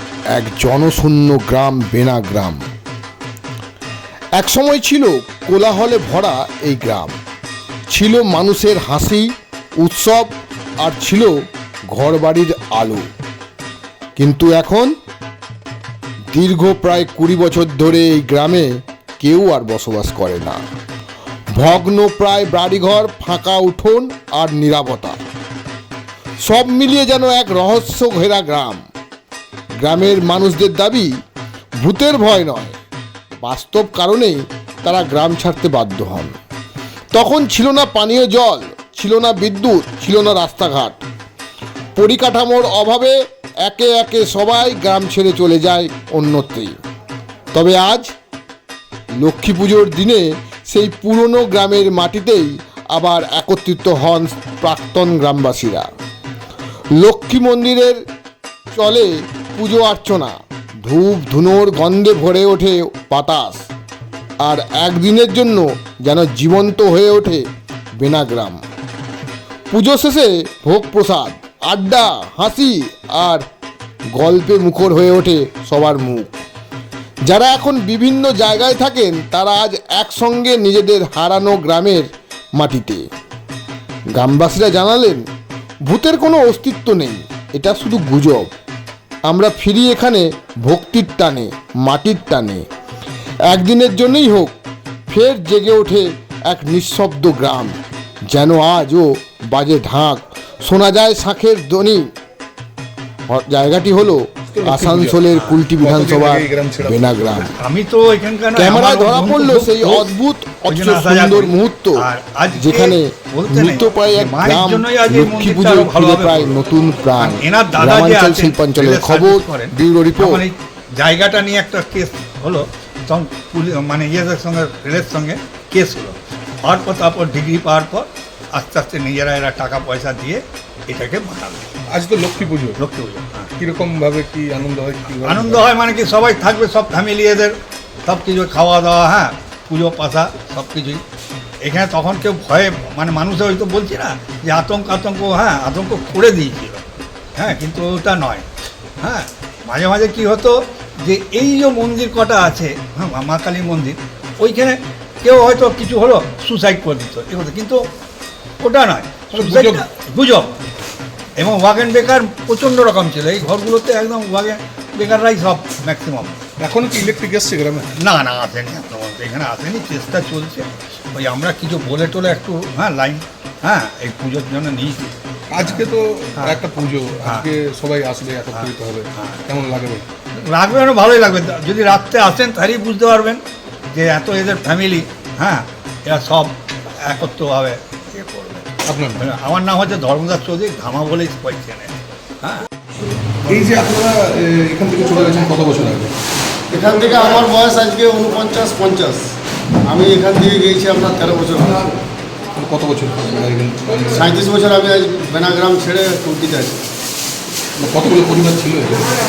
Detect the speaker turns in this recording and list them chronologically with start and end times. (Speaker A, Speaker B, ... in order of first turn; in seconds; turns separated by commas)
Speaker A: 0.3-2.6, Speaker A: 4.4-7.2, Speaker A: 7.9-10.3, Speaker A: 10.8-11.4, Speaker A: 11.9-13.1, Speaker A: 14.2-14.9, Speaker A: 16.3-20.6, Speaker A: 21.5-25.2, Speaker A: 26.4-28.8, Speaker A: 29.8-31.1, Speaker A: 31.8-32.7, Speaker A: 33.4-36.3, Speaker A: 37.1-41.0, Speaker A: 41.9-46.7, Speaker A: 47.5-48.1, Speaker A: 49.2-55.9, Speaker A: 57.0-58.0, Speaker A: 58.7-63.7, Speaker A: 64.4-67.4, Speaker A: 68.0-68.6, Speaker A: 69.7-73.5, Speaker A: 74.1-76.3, Speaker A: 77.2-83.0, Speaker A: 84.1-85.2, Speaker A: 85.8-88.5, Speaker A: 89.3-92.6, Speaker A: 93.5-94.5, Speaker A: 95.1-97.8, Speaker A: 98.3-102.1, Speaker A: 103.3-107.5, Speaker B: 104.5-107.4, Speaker C: 107.4-110.1, Speaker A: 108.5-112.0, Speaker C: 110.7-116.6, Speaker A: 112.6-120.4, Speaker C: 117.2-131.7, Speaker B: 131.9-132.8, Speaker C: 132.8-133.5, Speaker B: 133.6-135.7, Speaker C: 135.2-141.0, Speaker C: 141.6-148.4, Speaker C: 149.0-157.9, Speaker C: 158.6-160.5, Speaker B: 159.3-159.8, Speaker C: 161.4-166.3, Speaker B: 166.6-167.9, Speaker C: 168.0-175.8, Speaker B: 175.5-180.0, Speaker C: 176.3-176.7, Speaker C: 178.5-179.4, Speaker C: 180.3-183.4, Speaker C: 183.9-192.6, Speaker B: 188.8-189.3, Speaker B: 193.4-196.1, Speaker D: 196.7-199.2, Speaker D: 199.8-201.9, Speaker B: 202.5-204.3, Speaker D: 204.1-206.8, Speaker B: 207.8-209.1